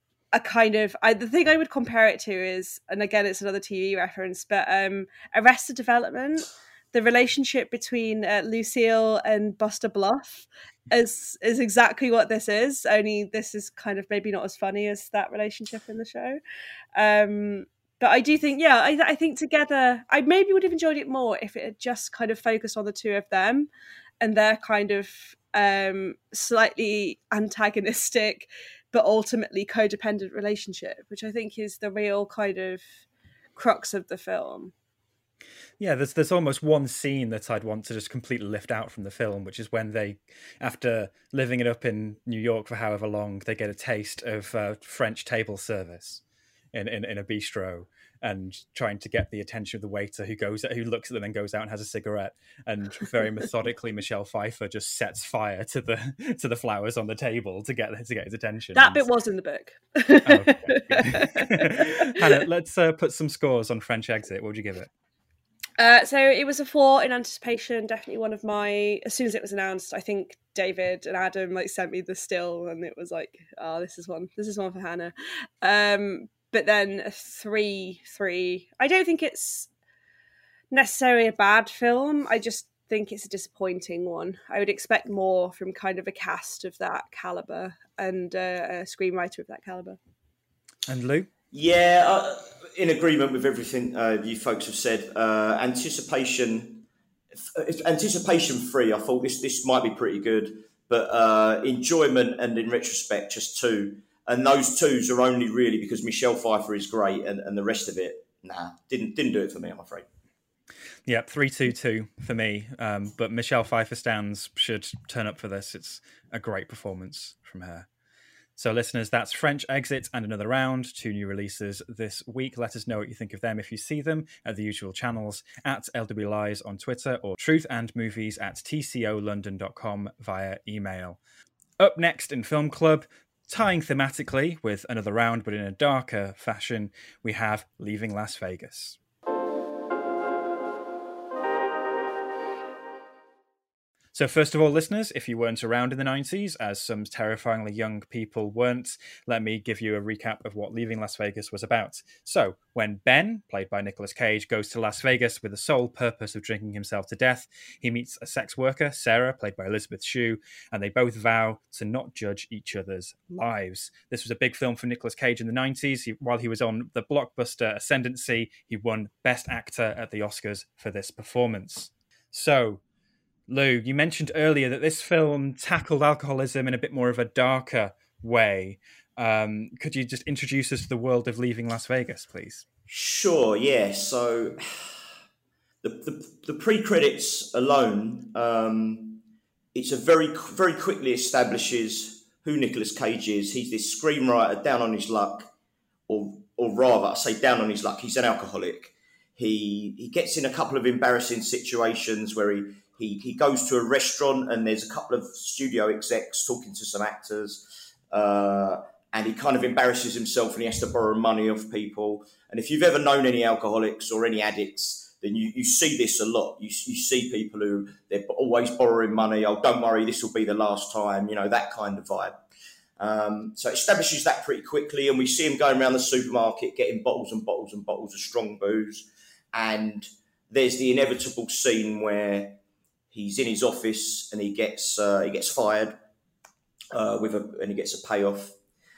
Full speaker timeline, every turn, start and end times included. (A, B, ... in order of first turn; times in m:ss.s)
0:00.3-0:16.4 A
0:17.0-0:23.7 A
0:24.2-0:32.9 A
0:33.6-0:34.7 A
0:35.8-0:59.1 B
0:58.8-1:02.4 A
1:00.3-1:04.9 B
1:05.8-1:19.7 A
1:20.7-1:30.0 A
1:30.9-1:31.3 B
1:31.5-1:36.9 C
1:37.6-1:50.1 C
1:51.1-1:57.9 B
1:58.6-2:11.2 B
2:11.8-2:19.0 B
2:24.1-2:52.8 B
2:53.5-3:02.6 B
3:02.9-3:04.6 C
3:05.8-3:09.2 C
3:09.7-3:15.5 C
3:16.1-3:42.4 C
3:43.0-3:52.6 C
3:53.1-3:56.0 C
3:56.9-3:58.6 C